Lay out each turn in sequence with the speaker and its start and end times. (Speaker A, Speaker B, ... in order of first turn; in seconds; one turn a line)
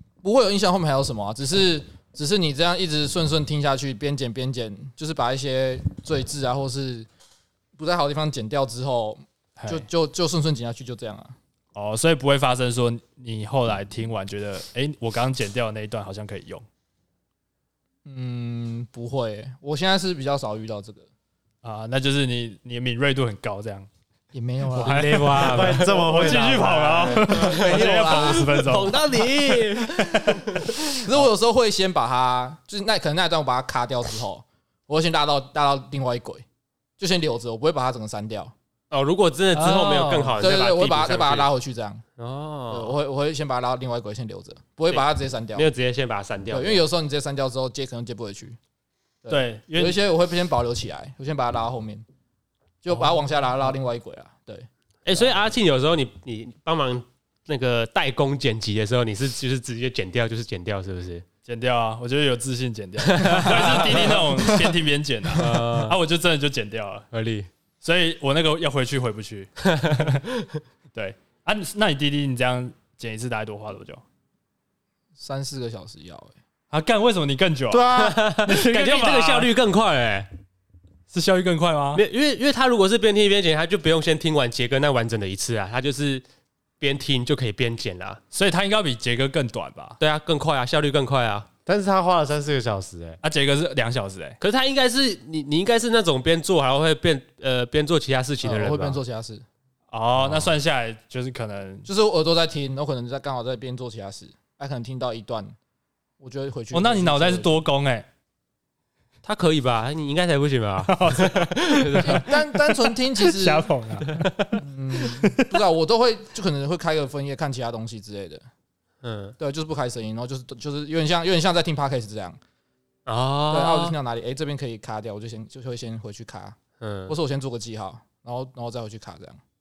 Speaker A: 0.2-7.1
Speaker A: 7.8-11.4
Speaker B: 9.6-9.9
Speaker B: 11.8-16.6
Speaker A: 18.1-21.1
Speaker B: 21.6-23.9
Speaker A: 24.3-25.5
Speaker B: 24.7-29.3
Speaker C: 24.8-26.4
Speaker D: 25.4-27.2
Speaker A: 26.9-28.6
Speaker C: 27.0-30.6
Speaker B: 29.8-31.0
Speaker A: 31.0-36.4
Speaker A: 37.0-38.5
Speaker C: 38.9-41.5
Speaker B: 39.5-40.4
Speaker A: 40.4-42.0
Speaker C: 42.2-43.0
Speaker A: 42.7-45.7
Speaker C: 44.9-46.8
Speaker A: 46.5-48.6
Speaker A: 49.2-52.0
Speaker B: 49.3-50.0
Speaker A: 52.8-55.3
Speaker C: 55.0-61.2
Speaker B: 61.5-67.1
Speaker C: 63.1-64.2
Speaker A: 63.5-64.5
Speaker C: 65.3-66.0
Speaker C: 67.1-67.5
Speaker B: 67.8-70.2
Speaker C: 69.7-70.5
Speaker B: 70.9-74.0
Speaker A: 75.2-76.3
Speaker B: 76.7-79.5
Speaker C: 77.7-80.3
Speaker B: 81.1-82.0
Speaker C: 82.0-86.2
Speaker C: 86.8-88.2
Speaker B: 88.3-90.0
Speaker C: 90.0-91.5
Speaker D: 91.7-93.2
Speaker B: 93.2-94.4
Speaker C: 94.4-99.0
Speaker A: 98.4-99.5
Speaker B: 99.9-101.9
Speaker A: 101.9-105.5
Speaker A: 106.2-107.6
Speaker B: 106.7-108.1
Speaker C: 109.2-112.3
Speaker B: 110.9-115.5
Speaker A: 112.0-113.7
Speaker A: 114.6-118.5
Speaker C: 119.0-119.3
Speaker A: 119.4-122.4
Speaker C: 123.1-124.0
Speaker A: 123.5-126.6
Speaker C: 126.8-127.2
Speaker A: 127.1-129.4